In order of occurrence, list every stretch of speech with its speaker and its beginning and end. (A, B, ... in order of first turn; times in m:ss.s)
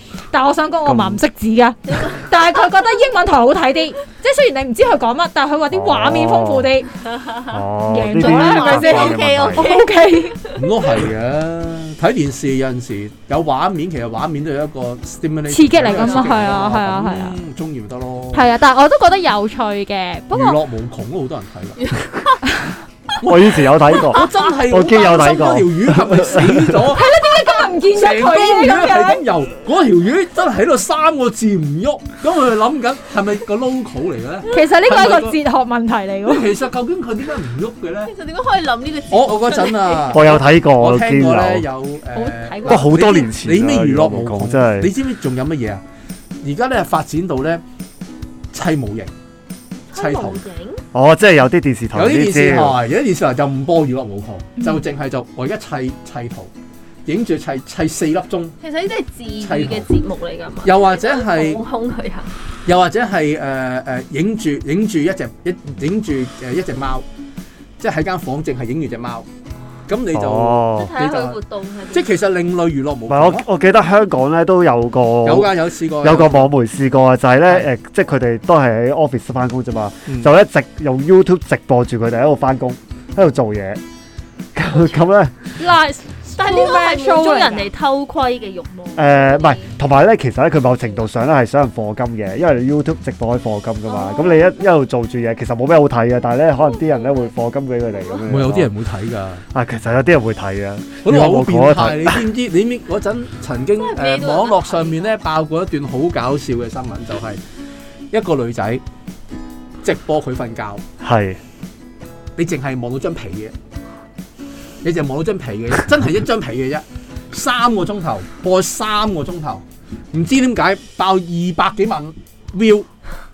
0:00.3-0:06.9 A
0:00.8-0:01.2 B
0:01.9-0:02.2 C
0:05.7-0:06.7 B
0:07.1-0:07.6 C
0:07.5-0:09.7 B
0:07.9-0:10.4 A
0:08.1-0:11.0 C
0:10.5-0:18.5 D
0:15.5-0:17.4 A
0:15.8-0:16.6 C
0:18.3-0:20.6 A
0:20.3-0:21.9 D
0:21.8-0:22.4 C
0:23.2-0:27.2 D
0:23.2-0:26.9 B
0:26.9-0:29.2 A
0:27.9-0:35.4 D
0:34.5-0:36.5 A
0:36.2-0:38.1 D
0:38.1-0:40.2 C
0:39.1-0:45.8 D
0:40.1-0:41.7 B
0:42.1-0:43.0 A
0:42.6-0:44.9 B
0:46.4-0:47.6 D
0:48.5-0:49.1 D
0:49.9-0:50.8 C
0:49.9-0:50.4 D
0:50.9-0:52.8 B
0:51.9-0:56.5 D
0:57.0-0:58.6 D
0:58.6-1:02.3 C
0:59.4-0:59.9 D
1:00.6-1:01.6 D
1:02.6-1:07.0 D
1:07.8-1:09.2 D
1:09.9-1:11.4 D
1:10.1-1:10.9 B
1:10.7-1:12.2 C
1:11.9-1:13.5 D
1:13.1-1:23.8 B
1:15.2-1:16.5 D
1:20.1-1:20.3 D
1:24.5-1:25.3 B
1:25.6-1:27.7 A
1:26.4-1:29.7 C
1:29.0-1:38.7 B
1:33.9-1:34.6 C
1:36.6-1:37.3 C
1:37.9-1:38.3 C
1:38.3-1:39.4 D
1:39.5-1:42.3 B
1:41.0-1:47.4 D
1:43.7-1:45.1 C
1:48.1-1:48.8 D
1:49.8-1:50.8 D
1:51.0-1:51.4 B
1:52.4-1:53.5 D
1:54.8-2:02.9 D